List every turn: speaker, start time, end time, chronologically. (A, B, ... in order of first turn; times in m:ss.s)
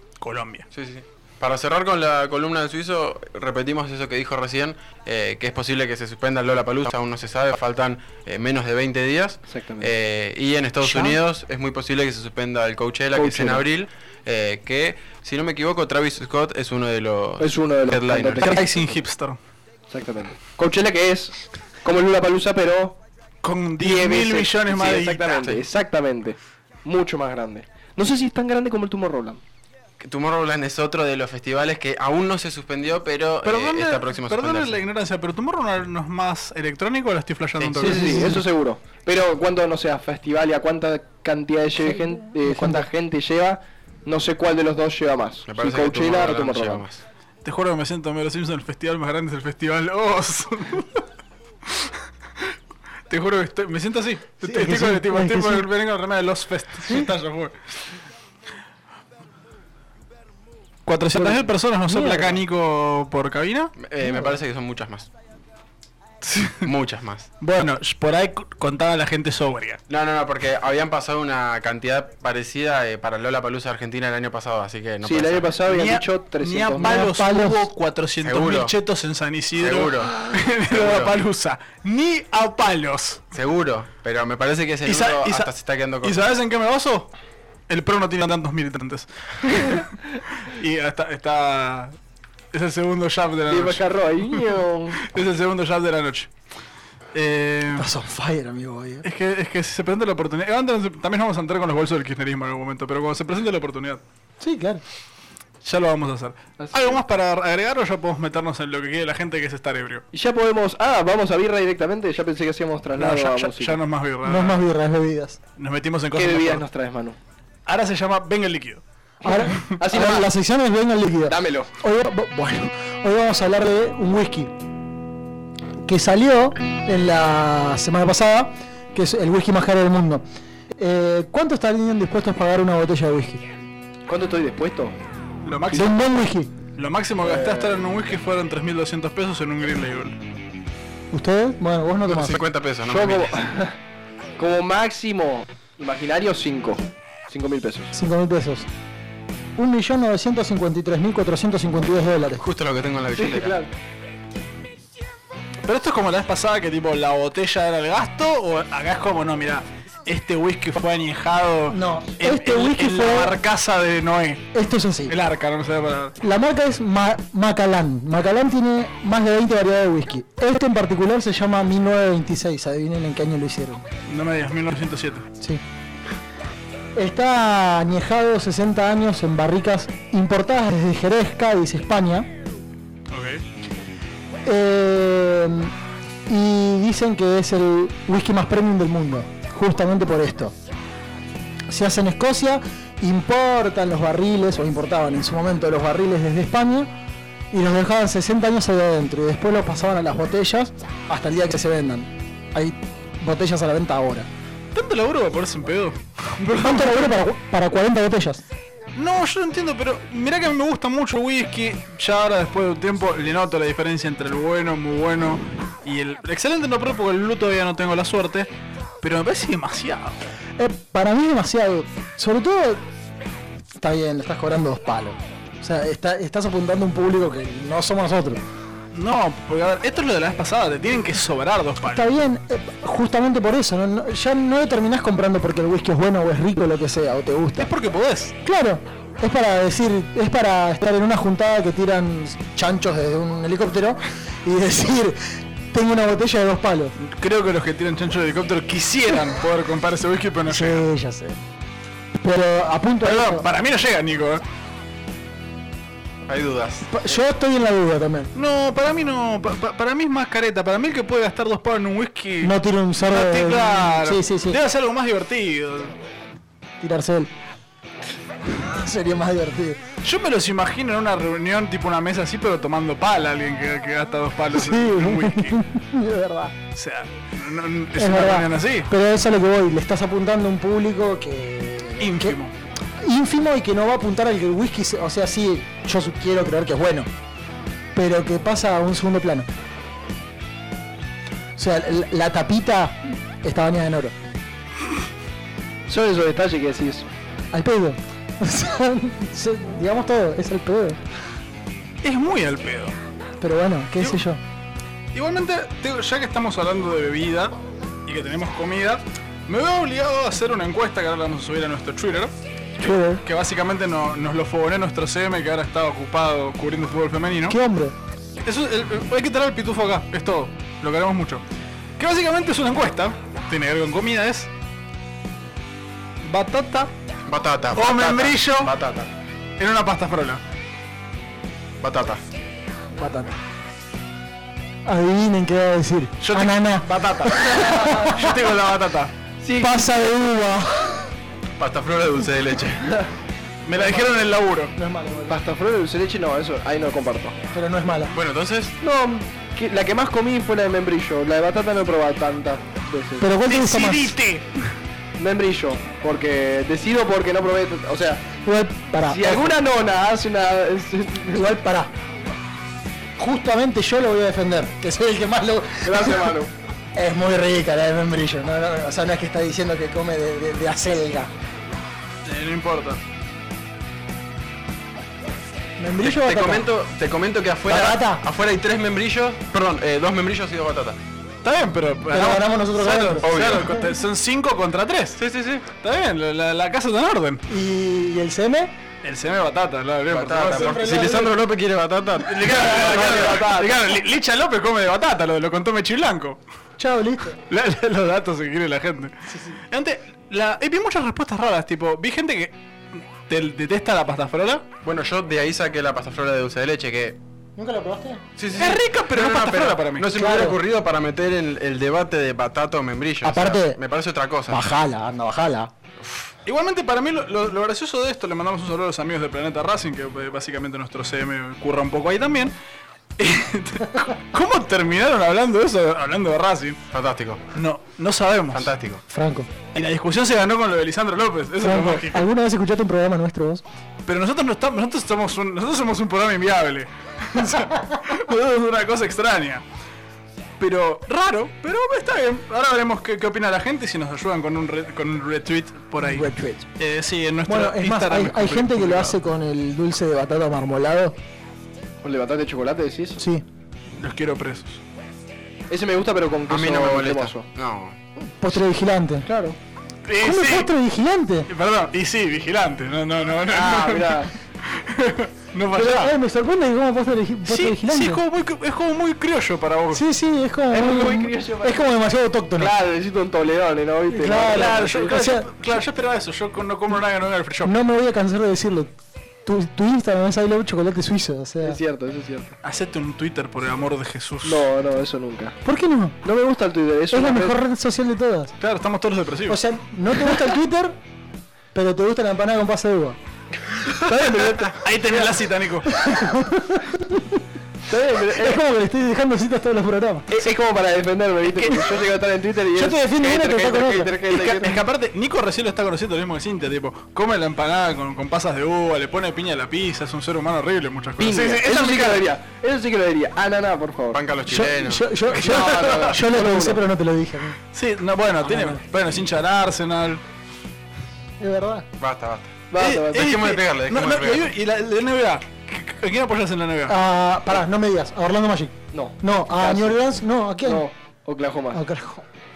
0:00.2-0:00.6 A
0:00.7-0:18.6 B
0:09.5-0:09.9 C
0:10.8-0:11.1 D
0:13.1-0:13.6 C
0:17.4-0:19.0 C
0:18.4-0:19.4 A
0:19.9-0:23.0 C
0:23.4-0:25.4 A
0:23.8-0:29.4 C
0:25.2-0:25.6 B
0:30.0-0:34.8 B
0:33.4-0:38.4 A
0:37.6-0:38.0 B
0:37.8-0:46.8 C
0:38.0-0:38.4 D
0:41.9-0:42.9 D
0:45.5-0:47.0 B
0:47.4-0:50.9 A
0:53.1-0:57.6 A
0:54.4-0:55.6 D
1:00.9-1:03.7 A
1:01.1-1:02.4 D
1:03.8-1:05.1 B
1:06.2-1:06.6 A
1:06.6-1:07.3 B
1:07.4-1:09.8 A
1:09.9-1:15.6 B
1:15.0-1:17.0 C
1:15.7-1:23.2 A
1:16.8-1:17.6 D
1:18.2-1:18.7 B
1:19.6-1:20.1 B
1:20.7-1:21.2 B
1:23.3-1:26.3 B
1:24.8-1:25.5 A
1:26.0-1:27.1 A
1:27.7-1:29.9 A
1:30.4-1:31.9 A
1:32.5-1:34.5 A
1:33.5-1:35.0 C
1:35.0-1:36.3 A
1:37.1-1:37.9 A
1:37.8-1:39.0 D
1:39.0-1:44.0 A
1:44.4-1:44.8 D
1:45.6-1:50.0 A
1:46.6-1:47.0 C
1:50.1-1:53.8 C
1:53.0-1:54.6 A
1:54.2-1:55.4 D
1:55.6-1:56.6 A
1:56.2-1:57.2 C
1:57.6-1:58.8 A
1:59.2-2:00.3 C
1:59.2-2:04.5 D
2:01.3-2:01.7 C
2:05.8-2:10.2 D
2:10.8-2:13.4 D
2:14.1-2:15.0 C
2:15.4-2:16.0 A
2:15.7-2:16.5 D
2:16.8-2:20.2 A
2:17.2-2:17.8 C
2:21.1-2:22.4 D
2:22.0-2:23.4 B
2:22.8-2:23.7 C
2:24.4-2:27.9 C
2:27.9-2:28.7 D
2:29.6-2:32.4 D
2:32.4-2:33.6 B
2:33.2-2:33.7 C
2:35.6-2:44.5 A
2:41.7-2:43.3 D
2:44.5-2:45.1 D
2:45.1-2:46.2 A
2:46.2-2:53.8 D
2:54.1-2:55.2 A
2:57.0-3:02.3 D
3:03.1-3:03.4 A
3:04.4-3:05.7 D
3:06.3-3:10.5 D
3:11.7-3:16.9 D
3:17.5-3:24.3 D
3:24.7-3:27.2 A
3:26.6-3:28.4 D
3:28.9-3:38.5 A
3:39.0-3:40.2 A
3:40.6-3:42.8 D
3:43.8-3:48.4 D
3:48.9-3:52.1 A
3:51.8-3:57.7 D
3:57.6-3:58.3 A
3:58.4-4:05.2 D
4:05.7-4:06.9 D
4:07.0-4:10.8 A
4:10.5-4:11.4 D
4:12.2-4:13.4 D
4:13.0-4:14.4 A
4:16.3-4:16.9 B
4:16.9-4:18.3 D
4:18.3-4:25.9 A
4:22.4-4:24.6 D
4:26.8-4:27.3 D
4:28.5-4:29.8 D
4:30.0-4:35.6 A
4:34.5-4:36.6 D
4:36.7-4:38.9 A
4:38.0-4:42.4 D
4:42.0-4:42.5 A
4:43.0-4:47.1 D
4:47.9-4:49.5 D
4:51.6-4:54.1 D
4:55.9-4:57.1 C
4:57.5-5:01.0 D
5:02.0-5:03.0 A
5:03.4-5:04.4 D
5:05.1-5:07.5 A
5:08.1-5:12.3 A
5:12.8-5:13.2 D
5:13.2-5:17.6 A
5:17.5-5:17.9 D
5:18.4-5:21.4 A
5:22.0-5:24.5 A
5:26.2-5:26.9 A
5:27.3-5:29.1 B
5:27.7-5:28.7 A
5:29.6-5:30.4 A
5:31.8-5:32.2 B
5:33.0-5:33.4 D
5:34.8-5:38.1 D
5:36.2-5:39.1 A
5:37.5-5:38.1 C
5:39.4-5:39.7 C
5:39.6-5:41.0 D
5:41.6-5:43.0 B
5:43.6-5:44.7 A
5:44.8-5:45.4 D
5:45.3-5:47.4 C
5:47.5-5:48.1 D
5:48.1-5:48.8 B
5:48.8-5:53.3 C
5:53.2-5:54.1 D
5:53.4-5:54.7 A
5:55.2-5:58.2 C
5:58.4-5:59.6 D
5:59.0-6:01.4 C
6:01.3-6:01.9 D
6:03.2-6:06.3 D
6:05.8-6:06.5 C
6:07.0-6:11.3 D
6:12.2-6:13.0 A
6:15.8-6:16.7 D
6:16.0-6:21.0 B
6:17.7-6:18.2 D
6:21.4-6:25.2 A
6:22.1-6:23.3 D
6:22.9-6:23.7 B
6:25.2-6:25.7 B
6:25.7-6:27.4 A
6:27.5-6:28.7 D
6:29.0-6:31.0 A
6:30.1-6:33.4 B
6:30.5-6:31.4 D
6:32.2-6:36.4 A
6:32.6-6:33.7 C
6:36.8-6:37.4 D
6:37.5-6:44.6 A
6:39.3-6:39.5 D
6:44.8-6:47.2 B
6:47.6-6:48.2 D
6:48.4-6:54.6 B
6:48.6-6:50.1 A
6:50.1-6:50.6 D
6:53.2-6:53.8 D
6:54.5-6:55.7 D
6:56.0-6:56.3 B
6:56.4-7:02.5 A
7:03.2-7:06.8 A
7:06.9-7:07.4 B
7:07.5-7:08.7 A
7:08.5-7:09.0 B
7:09.1-7:09.5 D
7:09.7-7:12.3 A
7:11.6-7:13.6 D
7:14.0-7:19.6 A
7:20.6-7:29.2 A
7:26.0-7:26.7 D
7:27.5-7:31.2 D
7:32.0-7:33.2 C
7:33.2-7:33.4 D
7:34.0-7:34.8 A
7:35.7-7:37.4 C
7:36.5-7:38.0 B
7:38.2-7:39.5 D
7:40.0-7:40.7 A
7:40.2-7:41.5 D
7:41.5-7:46.1 A
7:43.5-7:44.3 C
7:45.7-7:48.2 D
7:47.5-7:50.0 A
7:49.9-7:52.7 D
7:50.7-7:51.9 C
7:52.6-7:55.2 C
7:54.1-7:55.5 D
7:54.3-7:57.7 A
7:57.6-7:58.9 D
7:59.4-8:01.8 D
8:01.6-8:02.5 C
8:02.6-8:04.7 A
8:04.4-8:05.6 C
8:05.6-8:06.2 D
8:06.2-8:07.6 C
8:07.1-8:08.5 D
8:08.6-8:09.6 A
8:09.5-8:11.0 D
8:11.7-8:13.2 D
8:13.9-8:15.4 C
8:14.8-8:15.9 A
8:15.9-8:17.4 D
8:17.9-8:18.6 C
8:18.4-8:20.3 D
8:20.3-8:24.8 C
8:21.5-8:22.0 A
8:22.7-8:24.1 D
8:24.3-8:32.3 A
8:31.2-8:34.2 C
8:34.1-8:35.1 B
8:34.5-8:37.6 D
8:35.3-8:36.8 C
8:35.4-8:36.2 A
8:37.7-8:40.2 A
8:38.4-8:38.8 D
8:41.4-8:41.9 D
8:42.0-8:44.5 B
8:42.7-8:43.2 C
8:42.8-8:47.0 A
8:46.9-8:50.8 D
8:48.9-8:50.0 C
8:50.6-8:51.8 C
8:51.7-8:52.2 D